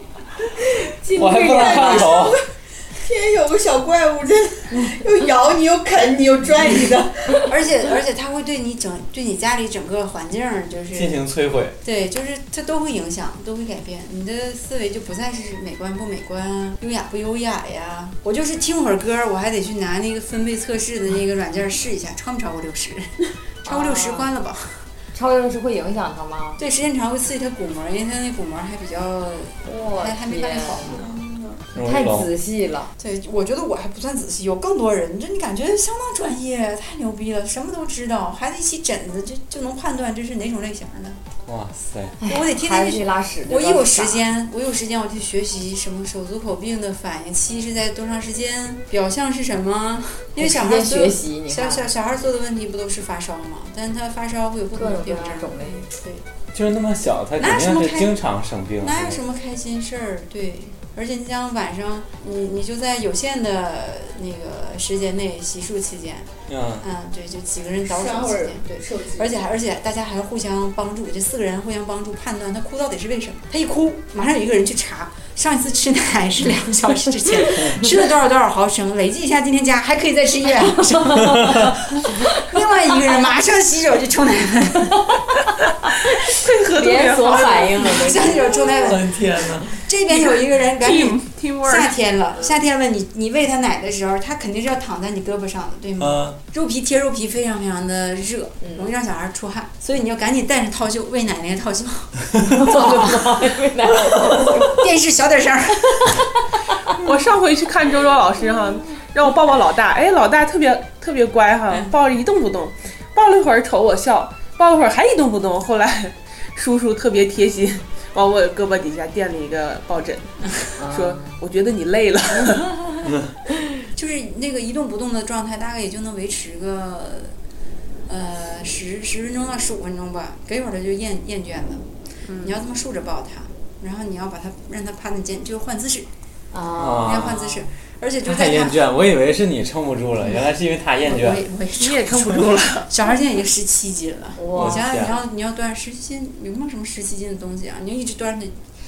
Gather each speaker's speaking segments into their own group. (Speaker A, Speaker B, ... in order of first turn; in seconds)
Speaker A: 0.7-2.0, 23.7-24.3, 25.1-26.6, 29.6-31.1, 31.8-32.9, 42.2-44.2, 50.4-51.9, 54.8-55.8, 77.4-77.8, 81.1-82.2, 85.9-88.7, 102.5-104.8, 120.8-121.4, 136.5-137.6, 144.4-144.8
Speaker B: 1.1-2.4, 10.9-11.8, 31.7-32.3, 41.5-42.2, 56.5-59.2, 66.5-66.8, 81.3-81.7, 88.7-89.9, 96.0-96.4, 123.0-123.3, 136.8-137.4, 138.2-141.4, 144.5-145.1
Speaker C: 1.1-7.4, 30.8-31.6, 67.9-69.3
Speaker D: 7.5-11.2, 11.8-23.1, 23.6-24.8, 26.6-31.1, 33.0-41.2, 42.3-56.2, 57.4-58.1, 58.8-85.2, 87.8-89.1, 89.7-103.5, 104.4-106.3, 123.9-127.3, 128.1-131.8, 132.4-136.1, 137.0-138.8, 141.1-142.1, 142.8-148.6
Speaker E: 86.3-88.1, 90.1-91.9, 107.0-120.3, 120.9-122.7, 141.7-142.9